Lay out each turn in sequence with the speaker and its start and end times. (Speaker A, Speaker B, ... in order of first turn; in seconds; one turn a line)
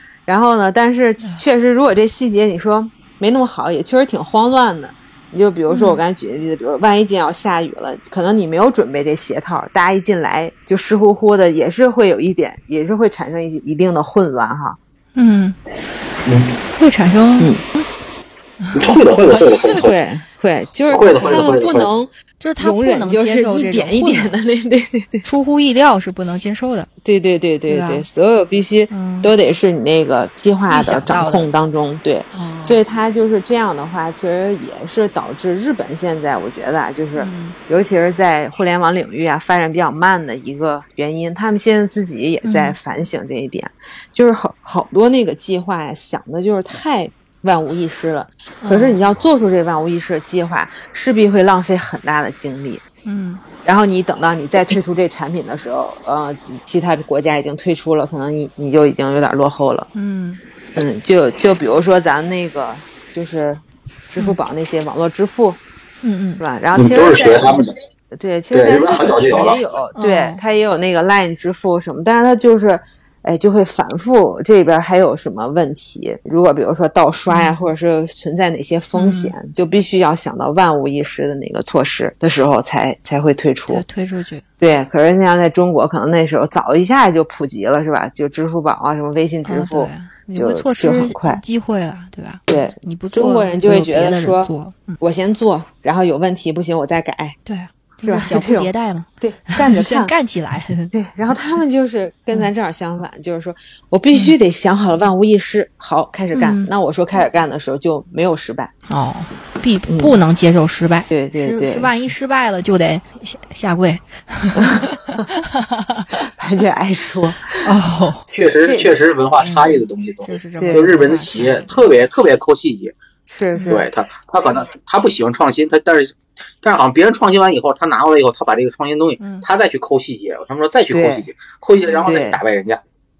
Speaker A: 0.2-14.8
Speaker B: 5.7-6.0
Speaker B: 15.1-15.6
Speaker C: 16.2-16.6
Speaker B: 16.7-17.9
Speaker B: 18.6-19.8
Speaker C: 18.7-19.9
Speaker A: 19.7-25.3
Speaker C: 20.9-21.9
Speaker B: 22.4-24.3
Speaker B: 25.2-26.9
Speaker A: 27.0-52.8
Speaker B: 27.7-28.1
Speaker B: 28.9-29.3
Speaker B: 30.7-31.5
Speaker B: 32.3-32.8
Speaker B: 37.1-37.6
Speaker B: 42.4-42.8
Speaker B: 48.6-49.0
Speaker B: 53.0-53.4
Speaker A: 53.6-59.9
Speaker B: 59.9-60.4
Speaker A: 60.7-65.6
Speaker B: 66.0-66.4
Speaker A: 66.4-83.8
Speaker C: 66.7-67.7
Speaker C: 68.5-69.6
Speaker B: 70.0-70.4
Speaker B: 77.3-77.5
Speaker B: 78.9-79.3
Speaker B: 83.7-84.4
Speaker A: 84.6-91.4
Speaker B: 89.4-95.0
Speaker A: 92.5-97.4
Speaker B: 97.4-100.9
Speaker A: 98.0-100.2
Speaker A: 100.9-108.7
Speaker B: 106.3-106.7
Speaker B: 108.9-116.1
Speaker A: 109.9-110.2
Speaker A: 111.1-112.1
Speaker A: 114.5-115.3
Speaker A: 116.2-117.7
Speaker B: 117.6-118.2
Speaker A: 118.3-119.0
Speaker C: 118.3-122.9
Speaker B: 119.4-121.8
Speaker A: 120.6-121.0
Speaker A: 123.3-123.9
Speaker B: 123.5-123.8
Speaker C: 123.7-132.8
Speaker B: 129.2-129.4
Speaker A: 130.9-131.2
Speaker A: 132.0-132.4